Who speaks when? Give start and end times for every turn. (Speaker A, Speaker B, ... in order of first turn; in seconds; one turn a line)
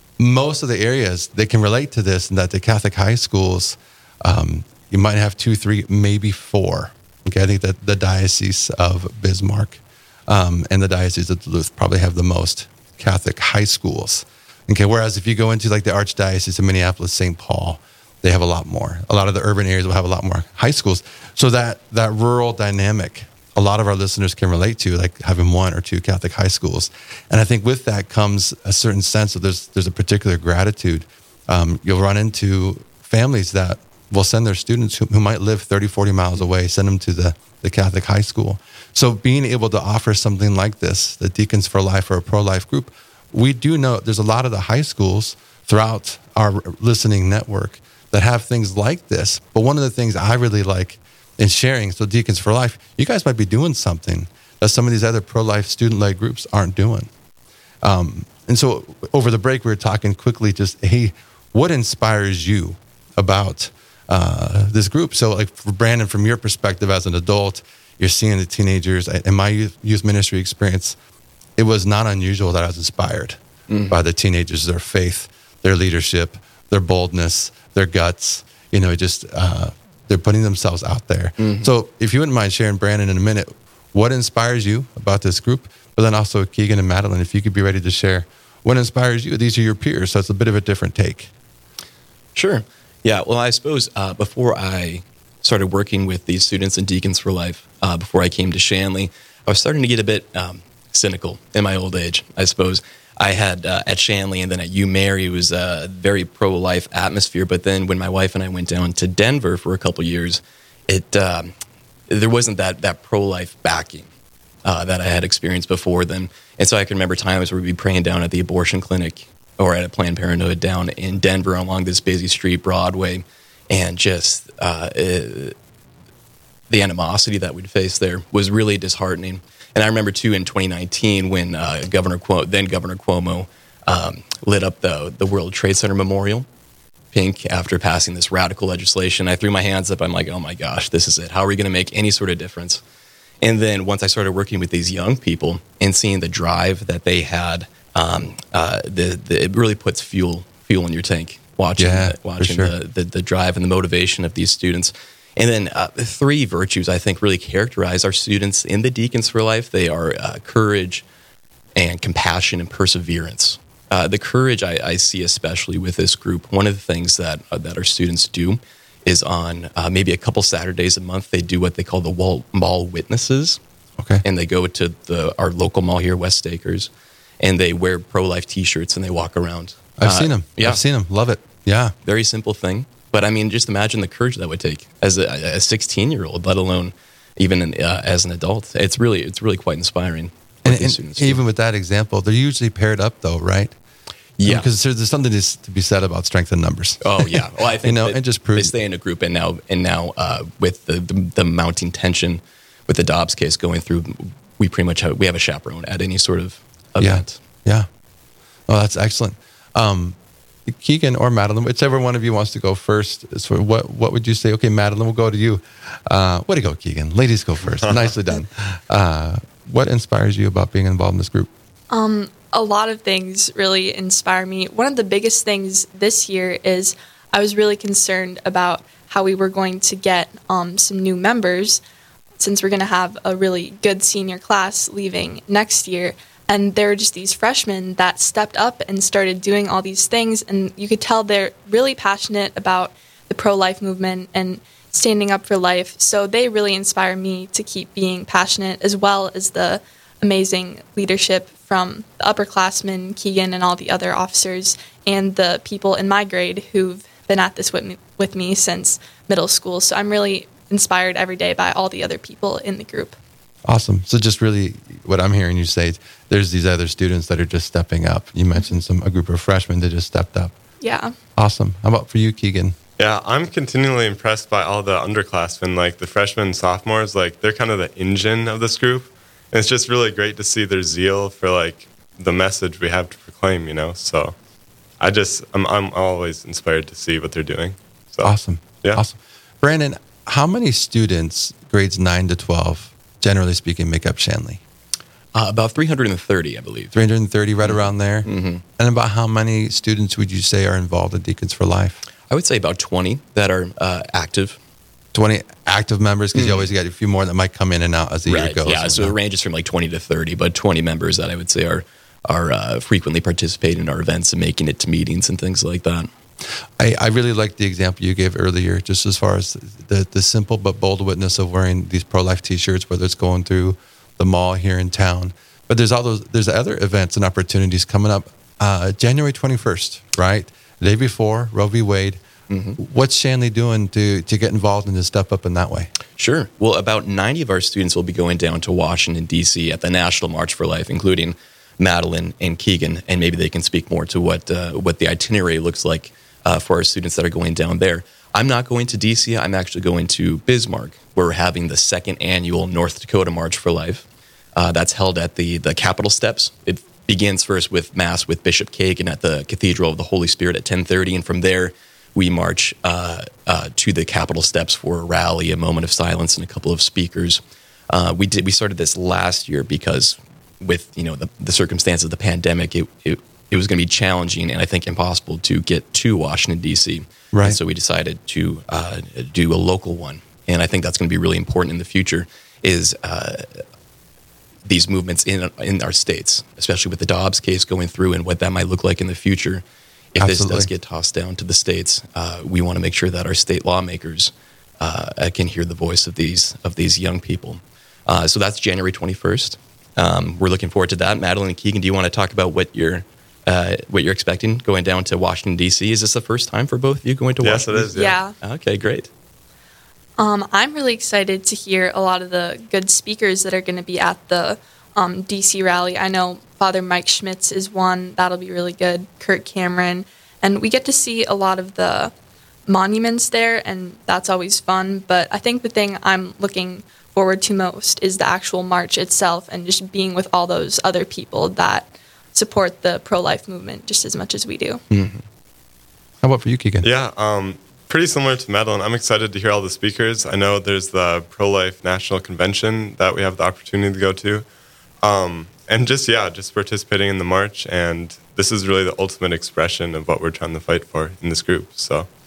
Speaker A: 0.2-57.1
Speaker A: 57.8-71.0
Speaker A: 71.6-91.3
Speaker B: 73.7-74.0
Speaker B: 81.4-81.7
Speaker B: 92.3-111.5
Speaker B: 112.1-114.1
Speaker B: 114.7-125.5
Speaker B: 126.7-136.5
Speaker B: 137.1-142.8
Speaker B: 143.4-161.0
Speaker A: 151.8-152.7
Speaker B: 161.8-173.6
Speaker A: 174.0-174.2
Speaker B: 174.2-180.8
Speaker A: 180.0-181.9
Speaker B: 182.1-191.4
Speaker A: 190.7-193.8
Speaker B: 194.4-194.7
Speaker A: 194.4-198.8
Speaker B: 197.0-207.4
Speaker A: 207.0-207.9
Speaker A: 208.7-210.2
Speaker A: 210.7-221.5
Speaker C: 221.9-231.8
Speaker C: 232.4-263.2
Speaker A: 263.7-270.5
Speaker C: 270.8-271.1
Speaker A: 271.4-272.8
Speaker D: 273.0-284.4
Speaker D: 285.0-289.0
Speaker A: 288.2-294.6
Speaker B: 295.3-296.9
Speaker A: 296.9-302.0
Speaker B: 297.6-298.6
Speaker B: 302.3-304.6
Speaker A: 305.1-309.1
Speaker B: 306.3-306.7
Speaker B: 308.3-316.1
Speaker A: 316.8-332.2
Speaker B: 332.5-332.8
Speaker A: 332.8-335.9
Speaker B: 336.1-354.1
Speaker B: 354.6-383.6
Speaker A: 377.3-377.6
Speaker B: 384.7-389.6
Speaker B: 390.1-409.1
Speaker A: 390.2-390.7
Speaker D: 407.4-408.2
Speaker C: 407.9-408.4
Speaker C: 410.2-422.1
Speaker C: 422.7-434.8
Speaker B: 434.9-435.2
Speaker A: 436.2-436.9
Speaker D: 436.8-444.5
Speaker D: 445.0-452.1